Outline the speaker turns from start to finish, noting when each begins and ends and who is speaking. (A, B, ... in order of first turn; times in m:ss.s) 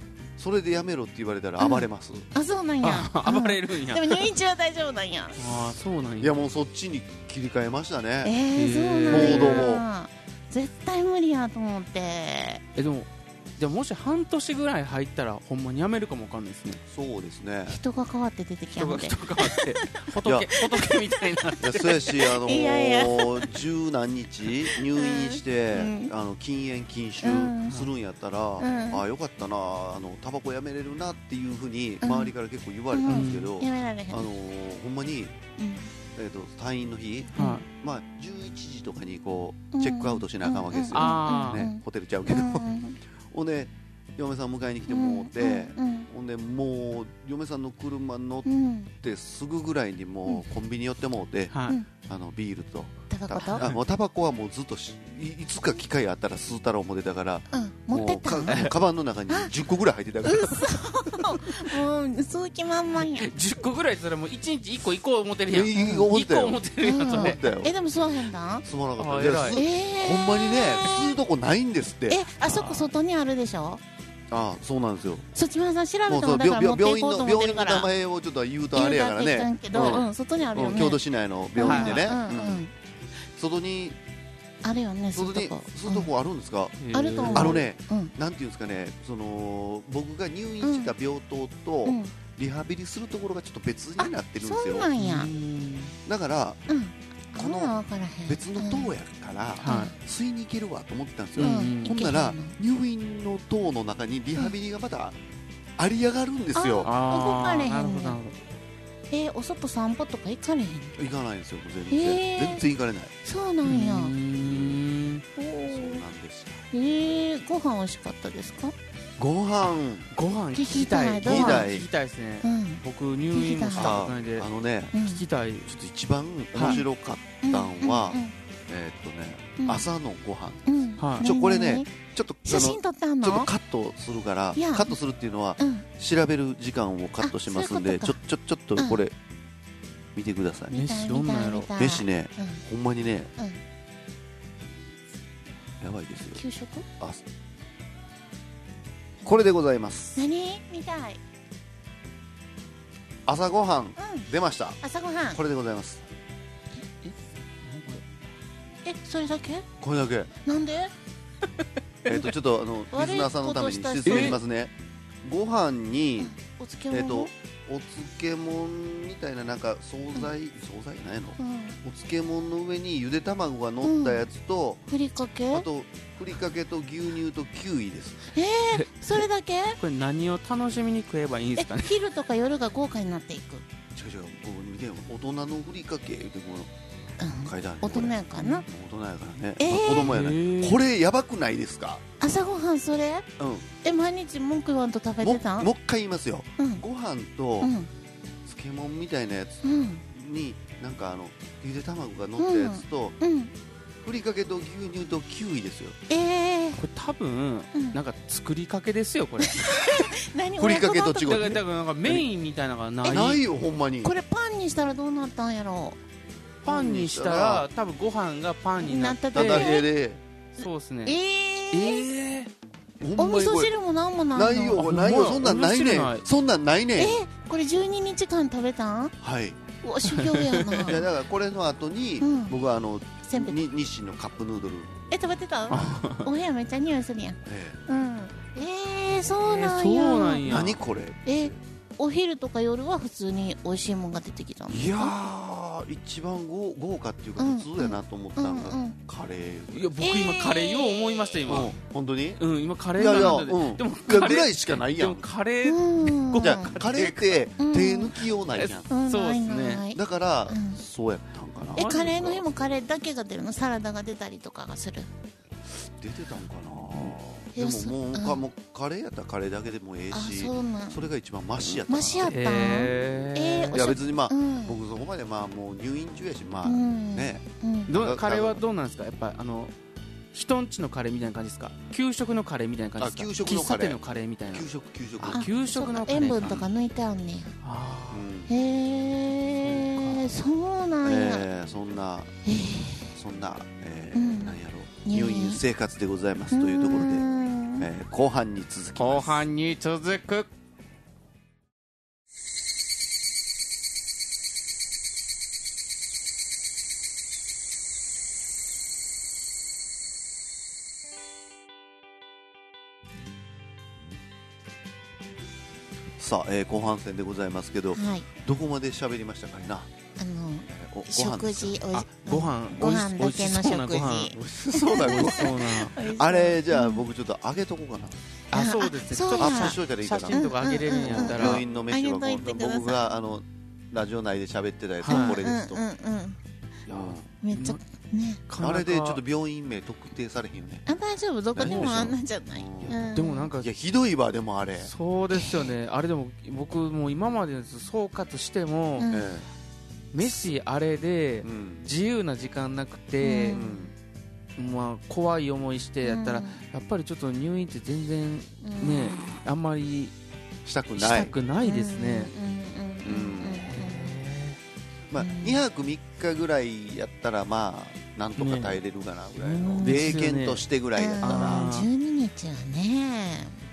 0:00.4-0:02.3 A
0:01.6-0:05.4 B
0:02.8-0:04.3 C
0:05.4-0:06.3 C
0:06.2-0:08.3 A
0:08.2-0:12.6 B
0:08.6-0:09.7 C
0:09.1-0:09.8 A
0:12.8-0:16.8 C
0:16.9-0:17.8 A
0:17.7-0:20.1 B
0:18.8-0:22.0 C
0:20.2-0:20.5 A
0:20.7-0:21.2 B
0:21.6-0:35.4 A
0:22.2-0:23.5 B
0:25.0-0:26.1 B
0:27.2-0:27.8 B
0:28.6-0:29.0 B
0:32.0-0:32.3 B
0:32.9-0:34.3 B
0:33.1-0:33.5 C
0:35.6-0:35.9 B
0:36.1-0:42.7 A
0:37.4-0:37.6 B
0:37.4-0:37.6 C
0:39.7-0:43.0 B
0:40.9-0:41.7 C
0:43.3-1:00.8 A
0:44.9-0:46.1 B
0:48.4-0:48.9 B
0:51.5-0:51.8 C
0:53.1-0:53.6 B
0:57.5-0:58.7 B
0:58.5-0:58.8 C
1:00.2-1:03.3 B
1:03.0-1:07.5 C
1:05.5-1:07.7 A
1:06.8-1:08.6 B
1:08.6-1:12.3 A
1:09.0-1:09.6 C
1:09.5-1:11.2 B
1:12.1-1:13.8 B
1:12.5-1:12.9 C
1:14.3-1:15.3 A
1:15.3-1:17.9 B
1:16.1-1:22.6 A
1:18.7-1:21.0 B
1:21.5-1:22.7 B
1:21.6-1:22.1 C
1:23.4-1:24.0 A
1:24.6-1:26.1 B
1:25.2-1:34.9 A
1:26.8-1:27.6 C
1:26.9-1:28.1 B
1:30.6-1:30.9 B
1:31.8-1:32.1 B
1:34.0-1:35.3 B
1:35.0-1:35.9 C
1:36.0-1:36.6 A
1:36.7-1:39.0 B
1:37.4-1:37.7 A
1:38.3-1:45.2 A
1:39.6-1:39.9 C
1:39.6-1:40.0 B
1:41.4-1:42.0 C
1:41.4-1:42.6 B
1:45.8-1:46.9 A
1:46.6-1:48.2 B
1:46.8-1:48.4 C
1:49.1-1:51.0 B
1:51.0-1:53.1 A
1:51.9-1:52.6 B
1:53.2-1:54.2 B
1:53.6-1:55.2 C
1:54.4-1:54.8 A
1:55.4-1:56.0 B
1:55.7-1:56.6 A
1:56.7-1:58.8 B
1:59.2-2:00.1 A
2:00.1-2:05.7 C
2:00.6-2:01.7 B
2:01.2-2:01.9 A
2:02.4-2:02.8 B
2:03.3-2:04.0 B
2:03.7-2:04.9 A
2:04.9-2:05.2 B
2:05.7-2:19.2 A
2:06.6-2:06.8 C
2:07.4-2:08.3 B
2:09.6-2:09.8 B
2:10.7-2:11.9 B
2:11.0-2:11.3 C
2:12.4-2:13.5 B
2:14.6-2:15.0 B
2:15.6-2:15.9 B
2:17.2-2:18.2 B
2:20.2-2:20.8 A
2:20.7-2:21.7 C
2:20.7-2:22.6 B
2:21.8-2:23.3 A
2:25.8-2:26.4 A
2:26.4-2:26.9 B
2:29.2-2:30.2 A
2:30.2-2:31.2 B
2:33.3-2:34.8 A
2:34.0-2:34.3 B
2:34.8-2:35.4 B
2:35.3-2:36.0 A
2:37.0-2:38.0 C
2:38.8-2:39.7 B
2:39.8-2:40.3 A
2:40.4-2:40.9 B
2:42.1-2:46.3 A
2:42.9-2:44.4 B
2:44.1-2:44.4 C
2:46.2-2:47.3 B
2:46.9-2:54.8 A
2:51.4-2:51.8 B
2:53.8-2:54.3 B
2:54.9-2:55.7 B
2:55.5-2:58.2 A
2:58.3-2:59.8 B
2:59.8-3:02.0 C
3:01.6-3:03.6 B
3:03.9-3:06.7 A
3:07.2-3:08.6 B
3:07.4-3:12.0 A
3:09.6-3:10.1 B
3:09.7-3:10.8 C
3:12.2-3:13.3 B
3:13.4-3:13.7 A
3:13.8-3:15.7 B
3:15.2-3:17.7 A
3:16.6-3:16.8 B
3:17.6-3:17.9 B
3:18.5-3:23.2 A
3:19.6-3:20.0 B
3:22.4-3:23.5 B
3:24.0-3:26.0 A
3:26.1-3:26.8 B
3:26.8-3:29.6 C
3:29.4-3:31.4 B
3:30.6-3:32.3 A
3:31.3-3:33.4 C
3:33.0-3:33.4 B
3:33.1-3:34.1 A
3:34.0-3:36.0 B
3:36.6-3:37.7 A
3:36.6-3:39.8 C
3:38.8-3:39.9 B
3:39.3-3:40.2 A
3:40.6-3:41.2 C
3:40.6-3:42.1 B
3:41.7-3:42.5 C
3:43.0-3:43.7 A
3:43.2-3:44.8 B
3:44.4-3:47.2 A
3:44.8-3:46.2 C
3:47.0-3:49.1 B
3:49.2-3:49.6 A
3:49.8-3:51.0 B
3:50.1-3:51.0 C
3:50.8-3:55.0 A
3:52.2-3:52.6 B
3:53.2-3:53.6 B
3:55.1-4:00.7 B
3:55.7-3:56.3 C
3:57.4-3:57.8 A
3:59.4-4:00.8 C
4:00.5-4:01.6 A
4:01.2-4:05.2 B
4:04.7-4:09.9 A
4:07.4-4:09.0 B
4:09.7-4:11.7 C
4:10.0-4:11.7 B
4:11.5-4:12.4 A
4:12.4-4:17.4 C
4:13.0-4:15.3 A
4:13.1-4:13.4 B
4:15.6-4:16.7 B
4:16.3-4:18.9 A
4:17.6-4:18.2 B
4:18.5-4:19.8 C
4:18.9-4:20.8 B
4:19.9-4:22.4 A
4:21.8-4:22.3 C
4:21.8-4:25.1 B
4:25.8-4:38.6 A
4:27.6-4:28.4 B
4:30.1-4:31.0 B
4:31.9-4:34.8 B
4:32.2-4:33.8 C
4:36.6-4:37.9 B
4:37.9-4:39.7 C
4:40.3-4:46.7 C
4:43.0-4:44.0 A
4:44.5-4:45.5 A
4:45.2-4:47.5 B
4:47.6-4:48.3 C
4:48.1-4:48.5 A
4:48.5-4:51.5 B
4:49.6-4:50.3 C
4:51.0-4:52.4 A
4:52.4-4:53.1 B
4:53.1-4:57.3 A
4:54.1-4:55.6 B
4:56.5-4:57.9 B
4:57.8-4:59.5 A
4:59.0-5:00.5 C
5:16.2-5:19.9 A
5:18.0-5:18.3 B
5:20.2-5:27.0 B
5:20.7-5:21.8 A
5:21.9-5:26.0 C
5:24.4-5:28.2 A
5:28.5-5:31.6 C
5:28.5-5:29.8 B
5:29.4-5:35.8 A
5:30.3-5:33.1 B
5:35.0-5:35.5 C
5:35.0-5:36.4 B
5:36.9-5:37.8 C
5:36.9-5:37.3 A
5:37.4-5:38.4 B
5:38.5-5:39.2 C
5:38.6-5:40.9 A
5:40.9-5:43.5 B
5:41.6-5:43.0 A
5:41.6-5:42.1 C
5:42.8-5:43.7 C
5:43.6-5:44.9 A
5:44.8-5:49.1 C
5:45.3-5:45.8 B
5:49.0-5:49.3 B
5:49.1-5:49.5 A
5:50.1-5:53.6 C
5:51.4-5:51.9 A
5:53.2-5:53.7 B
5:53.5-5:53.9 A
5:54.6-6:00.1 C
5:56.0-5:56.6 B
5:58.6-5:59.4 B
6:00.6-6:01.4 A
6:01.0-6:02.3 C
6:01.6-6:04.2 B
6:03.0-6:03.7 A
6:03.7-6:04.6 C
6:05.1-6:11.7 A
6:05.2-6:05.6 B
6:08.4-6:08.8 C
6:09.4-6:10.6 C
6:09.6-6:10.2 B
6:11.0-6:13.6 B
6:11.2-6:11.9 C